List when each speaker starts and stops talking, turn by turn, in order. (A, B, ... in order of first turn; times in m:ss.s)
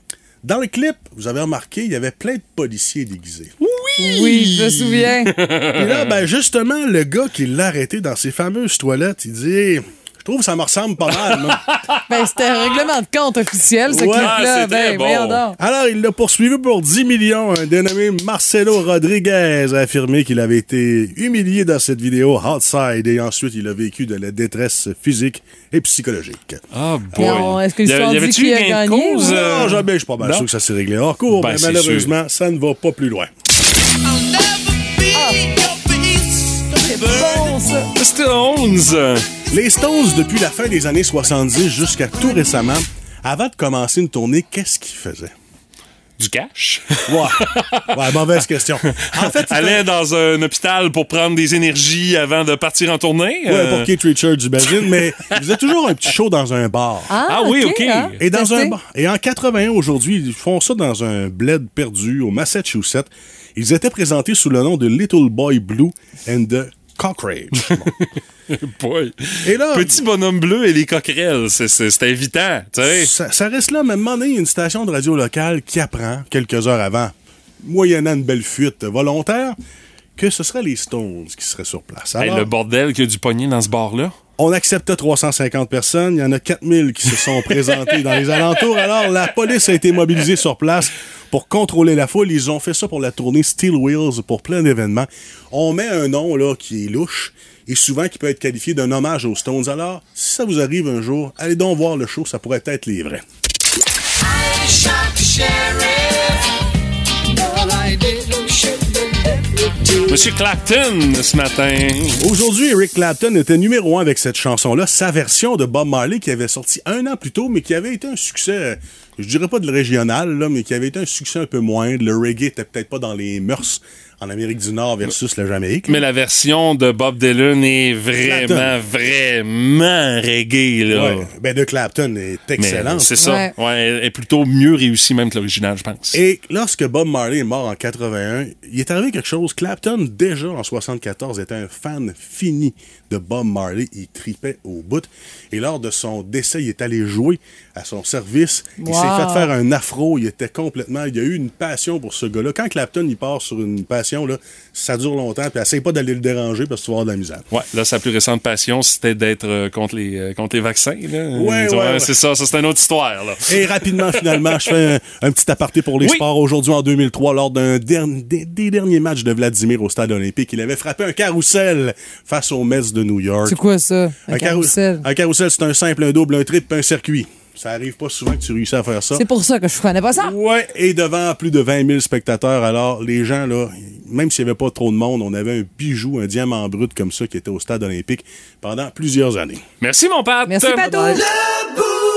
0:00.4-0:03.5 A
0:03.6-0:06.2 B
0:04.0-0:05.3 C
0:05.8-0:11.6 A
0:11.3-0:11.9 B
0:12.1-0:15.6 C
0:13.9-0:14.4 A
0:14.2-0:15.4 B
0:15.6-0:26.6 A
0:26.7-0:30.5 B
0:27.2-0:29.8 C
0:29.3-0:33.3 A
0:31.3-0:32.1 B
0:35.1-0:35.6 C
0:36.8-0:37.9 C
0:38.0-0:39.2 B
0:39.5-0:45.3 A
0:46.2-0:48.0 B
0:47.1-0:49.8 A
0:48.9-0:53.9 B
0:53.5-0:57.1 A
0:57.1-0:58.8 C
0:57.3-0:58.2 B
0:58.2-1:07.9 A
1:08.5-1:13.1 B
1:09.4-1:10.0 A
1:12.8-1:19.6 A
1:20.2-1:22.5 A
1:22.2-1:24.1 B
1:24.4-1:43.2 A
1:50.1-1:52.2 B
1:52.2-2:06.0 A
2:05.9-2:11.3 B
2:08.2-2:08.8 A
2:10.9-2:13.1 A
2:12.6-2:16.2 B
2:13.2-2:13.5 C
2:16.1-2:37.4 A
2:28.8-2:29.5 C
2:37.5-2:44.4 B
2:41.4-2:42.1 A
2:43.5-2:53.6 A
2:46.0-2:46.2 B
2:53.5-2:55.0 C
2:54.3-2:59.2 A
2:59.1-3:00.4 C
3:00.2-3:09.6 A
3:09.8-3:11.0 B
3:10.5-3:11.2 C
3:10.9-3:11.2 A